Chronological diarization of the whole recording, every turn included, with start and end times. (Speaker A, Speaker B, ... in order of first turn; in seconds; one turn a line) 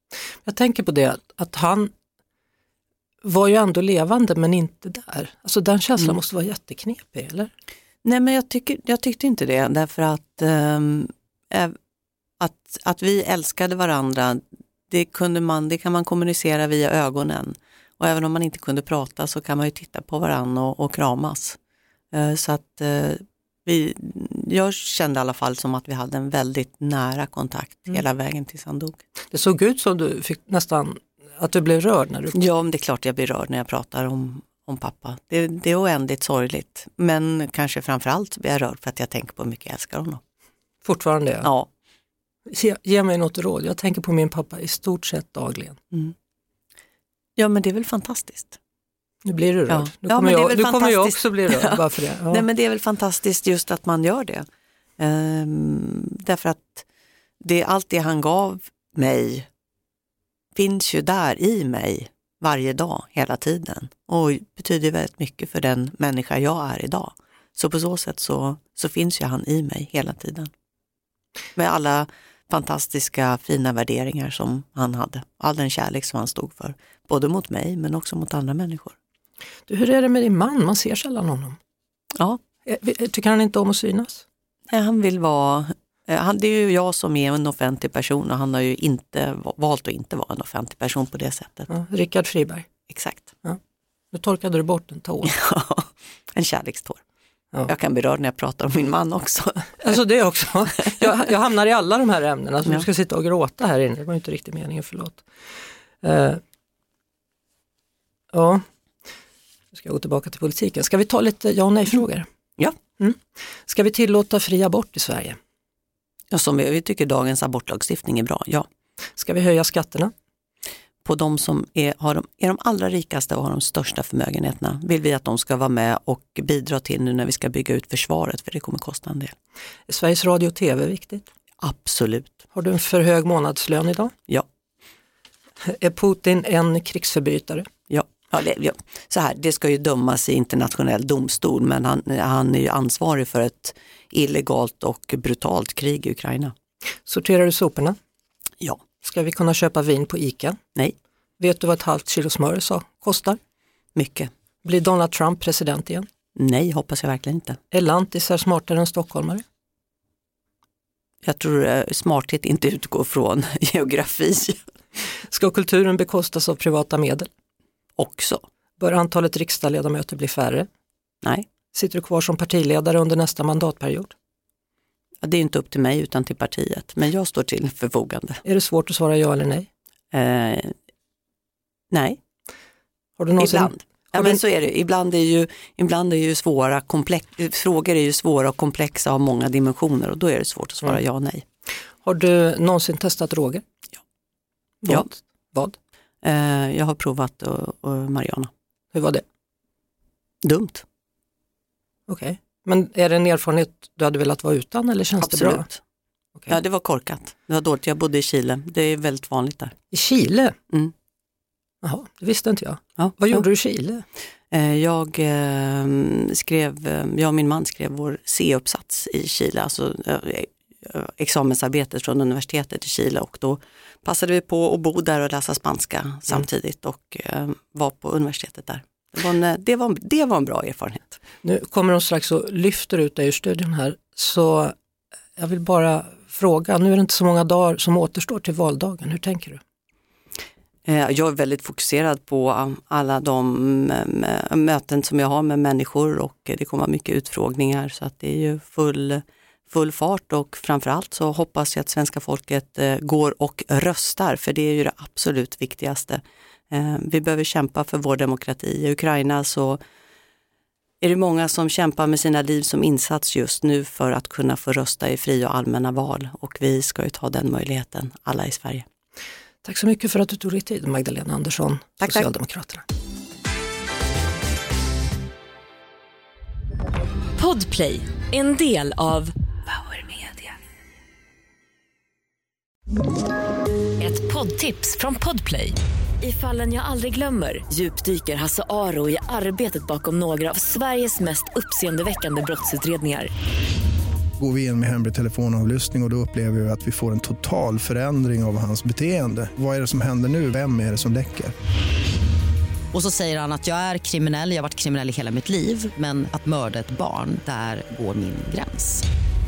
Speaker A: 0.5-1.9
Speaker A: 3.2-7.5
Speaker B: 8.1-11.7
Speaker B: 12.4-21.6
Speaker B: 22.1-29.0
Speaker A: 29.3-32.4
Speaker B: 32.3-40.2
Speaker A: 40.8-41.5
Speaker A: 42.5-45.8
Speaker B: 47.4-48.6
Speaker A: 49.2-52.5
Speaker B: 49.7-54.5
Speaker B: 55.0-56.9
Speaker B: 57.4-59.5
Speaker B: 60.6-70.5
Speaker B: 71.6-79.0
Speaker A: 79.7-81.6
Speaker A: 82.7-84.2
Speaker B: 84.7-91.7
Speaker A: 91.7-92.7
Speaker B: 92.9-93.3
Speaker A: 94.1-95.3
Speaker B: 95.3-97.0
Speaker B: 97.7-100.0
Speaker A: 99.8-105.2
Speaker A: 106.0-106.4
Speaker A: 108.3-108.6
Speaker A: 109.7-112.3
Speaker A: 113.0-115.4
Speaker B: 116.3-118.7
Speaker A: 119.2-120.1
Speaker B: 121.0-129.3
Speaker A: 129.9-131.3
Speaker B: 131.6-132.4
Speaker A: 132.5-134.1
Speaker A: 135.6-137.7
Speaker B: 137.9-146.5
Speaker A: 147.1-148.0
Speaker A: 149.0-150.6
Speaker A: 151.4-153.4
Speaker B: 153.9-154.3
Speaker A: 154.6-156.1
Speaker B: 156.4-157.6
Speaker A: 157.7-159.4
Speaker B: 161.2-164.6
Speaker A: 165.3-167.3
Speaker B: 168.0-168.4
Speaker A: 168.8-170.7
Speaker A: 171.7-174.1
Speaker B: 175.2-178.4
Speaker A: 178.4-179.7
Speaker B: 180.1-180.7
Speaker B: 181.9-182.2
Speaker A: 183.2-184.4
Speaker B: 183.4-191.4
Speaker A: 192.0-193.6
Speaker A: 194.8-195.8
Speaker B: 196.2-198.5
Speaker A: 198.9-199.2
Speaker B: 200.4-200.8
Speaker A: 202.1-205.7
Speaker B: 205.2-205.8
Speaker B: 206.5-209.8
Speaker A: 209.9-210.6
Speaker A: 211.8-214.0
Speaker B: 213.0-213.4
Speaker B: 214.5-231.2
Speaker A: 231.4-234.7
Speaker A: 235.4-239.6
Speaker B: 240.9-259.8
Speaker B: 261.0-268.9
Speaker A: 269.6-272.9
Speaker B: 272.0-272.3
Speaker C: 277.4-280.5
Speaker C: 284.0-293.3
Speaker D: 294.4-301.5
Speaker E: 302.9-309.0